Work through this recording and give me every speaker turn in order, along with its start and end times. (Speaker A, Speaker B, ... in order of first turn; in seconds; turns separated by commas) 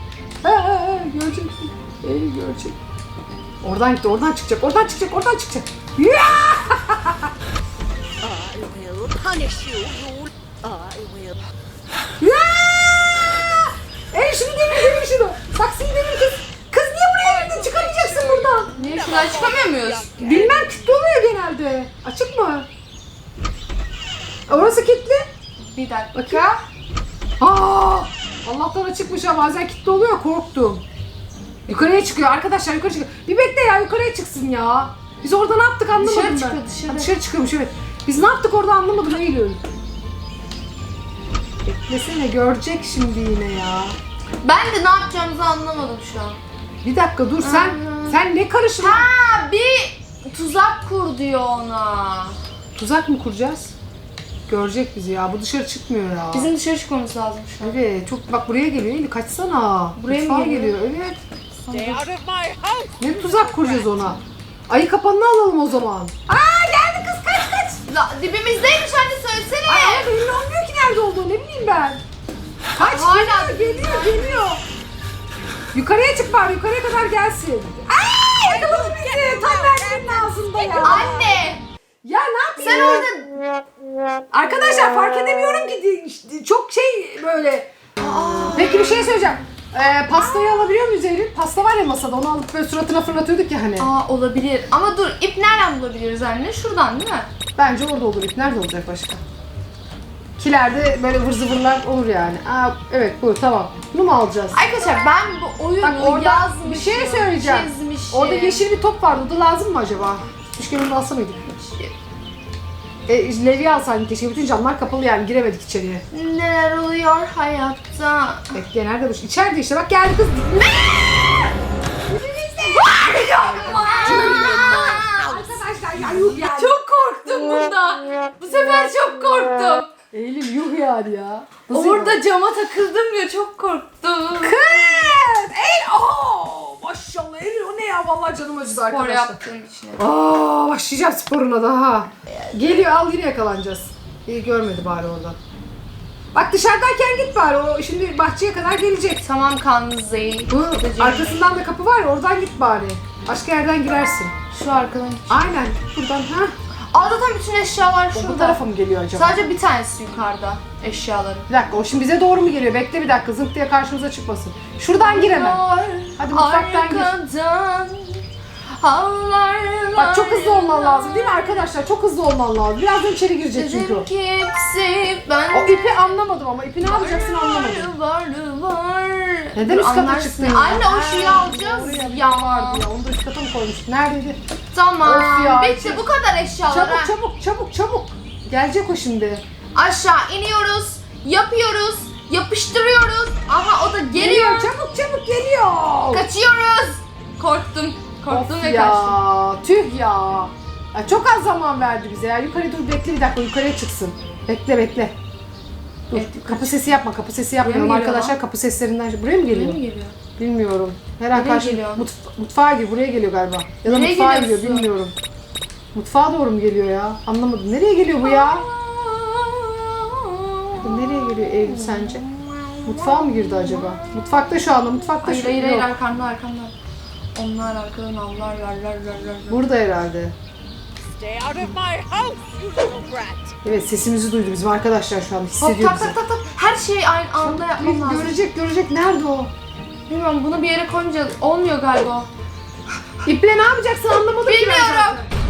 Speaker A: 0.4-2.8, Speaker A: 3.6-7.3, Speaker B: 8.2-11.4, Speaker A: 12.2-18.7, Speaker B: 17.3-20.7, Speaker C: 18.7-20.2, Speaker A: 20.1-22.7, Speaker A: 24.5-25.3, Speaker C: 25.6-26.6, Speaker A: 26.1-26.4, Speaker A: 27.4-30.8, Speaker A: 31.6-39.6, Speaker C: 36.0-37.1, Speaker A: 41.6-44.0, Speaker C: 44.4-46.4, Speaker A: 46.8-49.1, Speaker C: 47.4-48.2, Speaker C: 48.8-52.4, Speaker A: 52.7-53.7, Speaker A: 54.5-56.5, Speaker C: 56.3-57.8, Speaker A: 57.6-61.2, Speaker C: 60.0-60.8, Speaker C: 61.5-62.1, Speaker B: 61.7-63.8, Speaker A: 63.0-67.8, Speaker C: 67.9-70.1, Speaker A: 69.7-72.0, Speaker C: 72.8-74.5, Speaker A: 72.8-74.6, Speaker A: 75.7-81.2, Speaker B: 78.4-80.9, Speaker C: 80.8-81.6, Speaker A: 82.0-83.1, Speaker C: 82.6-83.4, Speaker A: 84.3-87.7, Speaker C: 88.0-89.2, Speaker A: 88.5-93.9, Speaker C: 90.0-90.7, Speaker C: 93.8-97.3, Speaker A: 97.5-99.2, Speaker A: 100.4-104.6, Speaker C: 104.5-108.6, Speaker A: 105.8-111.4, Speaker C: 111.4-111.9, Speaker A: 113.1-116.0, Speaker C: 116.1-118.5, Speaker A: 118.5-121.4, Speaker A: 122.1-126.8, Speaker C: 122.5-125.3, Speaker C: 126.4-129.9, Speaker A: 130.1-132.2, Speaker C: 131.7-134.7, Speaker A: 134.4-139.4, Speaker C: 138.7-140.0, Speaker A: 140.0-145.4, Speaker C: 142.3-142.6, Speaker A: 146.3-149.2, Speaker C: 149.2-151.4, Speaker A: 150.5-154.3, Speaker C: 154.5-155.5, Speaker A: 155.3-156.5, Speaker C: 156.9-158.6, Speaker A: 158.1-159.4, Speaker C: 159.1-161.5, Speaker A: 161.5-165.6, Speaker C: 165.0-171.7, Speaker A: 166.2-167.1, Speaker A: 169.9-174.1, Speaker C: 173.5-176.2, Speaker A: 175.5-177.9, Speaker C: 176.8-182.8, Speaker A: 179.5-184.4, Speaker C: 184.7-187.1, Speaker A: 185.0-186.0, Speaker A: 186.7-189.4, Speaker C: 189.7-194.7, Speaker A: 194.1-196.3, Speaker C: 196.1-199.2, Speaker A: 198.3-205.1, Speaker A: 206.1-209.8, Speaker C: 206.1-206.8, Speaker C: 207.6-208.3, Speaker C: 209.4-210.2, Speaker A: 210.3-215.1, Speaker C: 211.3-212.0, Speaker C: 213.8-214.9, Speaker A: 215.9-218.7, Speaker C: 218.2-224.1, Speaker A: 220.8-222.2, Speaker A: 222.8-225.9, Speaker C: 225.2-226.7, Speaker C: 227.3-229.7, Speaker A: 229.5-230.3, Speaker B: 231.1-233.5, Speaker A: 233.6-236.1, Speaker C: 235.6-238.3, Speaker A: 237.4-239.5, Speaker C: 240.1-242.3, Speaker A: 243.2-245.3, Speaker C: 244.4-245.2